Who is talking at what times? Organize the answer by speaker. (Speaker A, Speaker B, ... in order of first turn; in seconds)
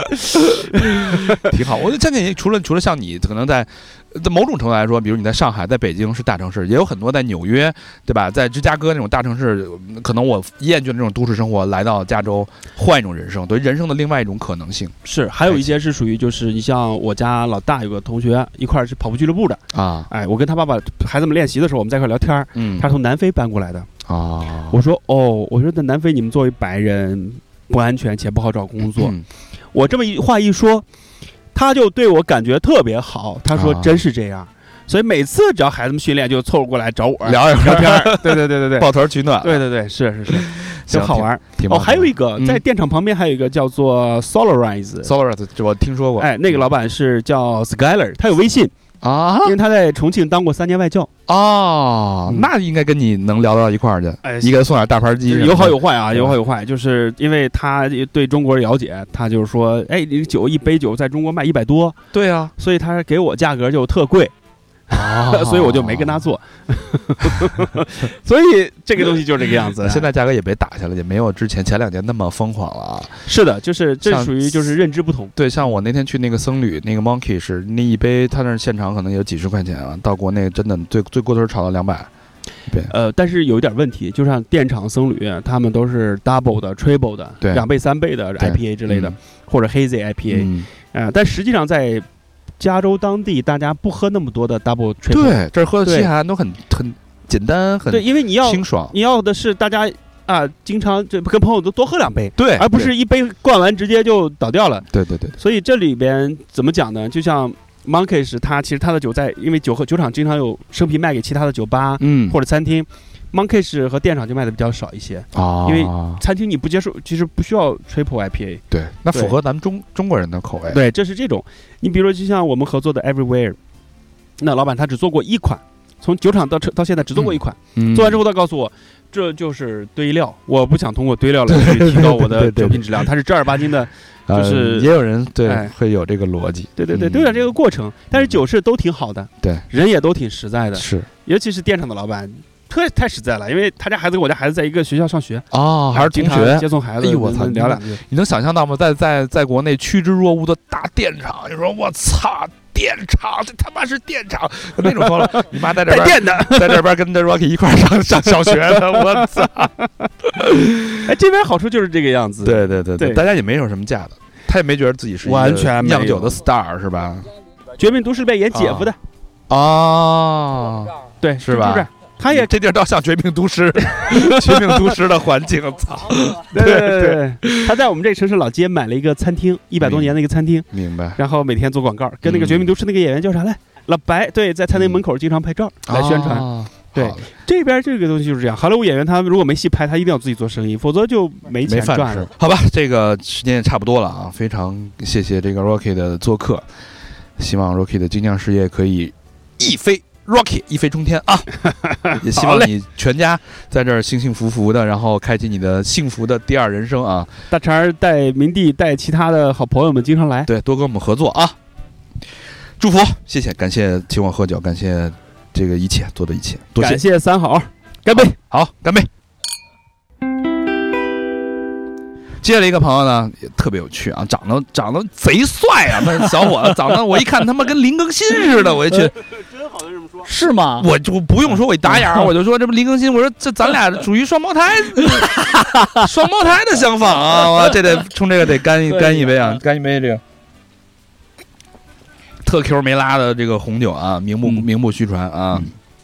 Speaker A: 0.2-14.9, 15.5-15.8, 19.7-20.1, 22.6-22.9, 24.1-24.8, 28.8-29.2, 33.5-34.0, 37.2-39.6, 40.3-42.6, 45.0-46.3, 49.0-49.6, 51.3-56.4, 62.1-62.5, 64.9-66.3, 67.2-67.5, 69.8-73.2, 74.0-74.7, 75.3-82.1, 88.4-89.2, 90.3-90.7, 95.1-98.9, 102.4-102.9, 104.9-105.4, 112.0-112.4, 115.3-116.2, 118.7-120.8, 127.2-128.2, 131.5-133.1, 134.3-137.5, 138.1-138.4, 140.8-141.1, 145.5-159.7, 160.2-161.1, 162.4-167.3, 168.5-168.9, 169.5-177.7, 179.8-180.1, 180.7-181.2, 182.2-182.7, 184.7-185.0, 185.9-187.2, 191.7-196.7, 197.4-201.6, 202.1-207.3, 210.5-211.6, 212.8-217.0, 218.1-219.1, 222.4-229.1, 230.8-240.2, 242.4-245.7
Speaker B: 0.9-1.4, 15.1-23.9, 24.7-29.1, 29.7-30.9, 31.5-38.9, 39.4-45.1, 46.2-48.7, 49.4-51.1, 54.2-54.6, 55.3-62.0, 62.6-64.3, 64.9-70.1, 73.3-75.3, 82.9-92.1, 92.6-96.1, 97.9-104.9, 105.4-119.4, 120.7-123.6, 124.4-134.9, 135.4-135.7, 136.8-148.0, 155.8-156.8, 158.3-160.1, 161.0-163.2, 165.2-166.3, 167.8-169.0, 171.2-172.5, 174.0-175.0, 176.5-192.3, 201.9-202.6, 207.5-210.5, 216.8-218.4
Speaker C: 230.2-230.9, 231.9-232.3, 235.2-236.1, 238.9-239.6